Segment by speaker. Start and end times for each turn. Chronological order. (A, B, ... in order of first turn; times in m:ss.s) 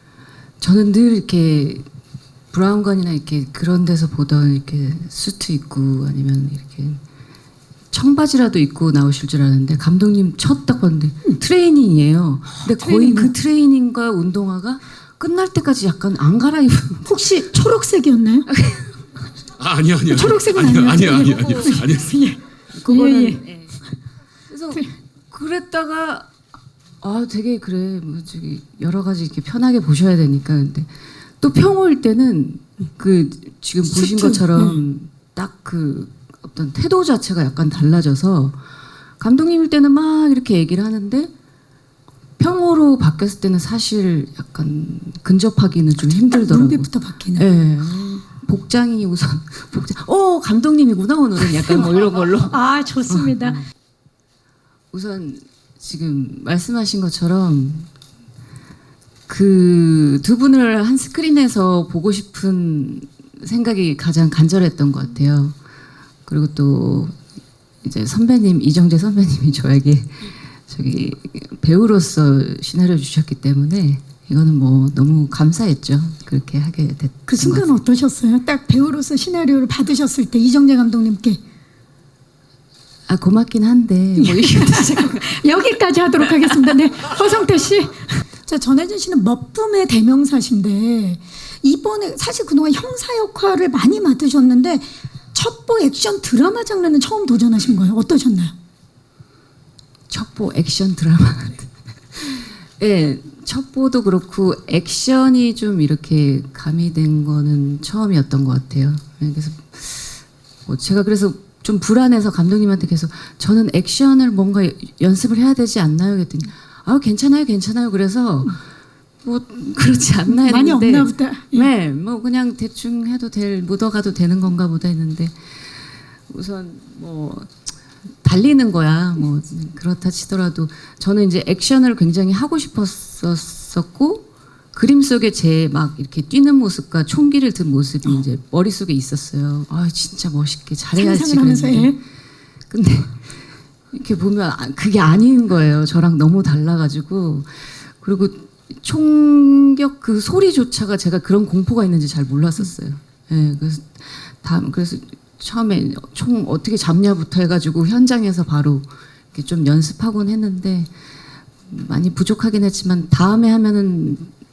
0:00.6-0:01.8 A
0:02.5-0:07.0 A
0:07.9-0:17.1 A
0:12.7-0:13.3 B
0:17.1-0:18.5 B
0:18.5-0:19.0 A
0:19.6-0:22.1 C
0:20.0-0:23.4 B
0:21.1-0:21.8 A
0:22.8-0:23.8 A
0:24.5-0:26.3 A
0:27.0-0:38.6 A
0:34.0-0:34.8 B
0:39.2-0:41.3 A
0:42.4-0:52.6 A
0:46.3-0:47.4 B
0:52.5-0:53.6 B
0:53.1-0:53.7 A
0:54.9-0:57.9 A
0:59.3-1:05.6 A
1:06.3-1:07.2 A
1:07.8-1:17.7 A
1:17.3-1:21.4 B
1:23.1-1:25.4 A
1:24.2-1:38.5 B
1:40.1-1:58.6 A
1:59.2-2:05.4 A
2:00.3-2:01.7 B
2:06.3-2:07.5 A
2:08.2-2:21.9 A
2:21.0-2:22.0 B
2:22.7-2:23.4 A
2:23.9-2:40.9 A
2:41.7-2:44.3 A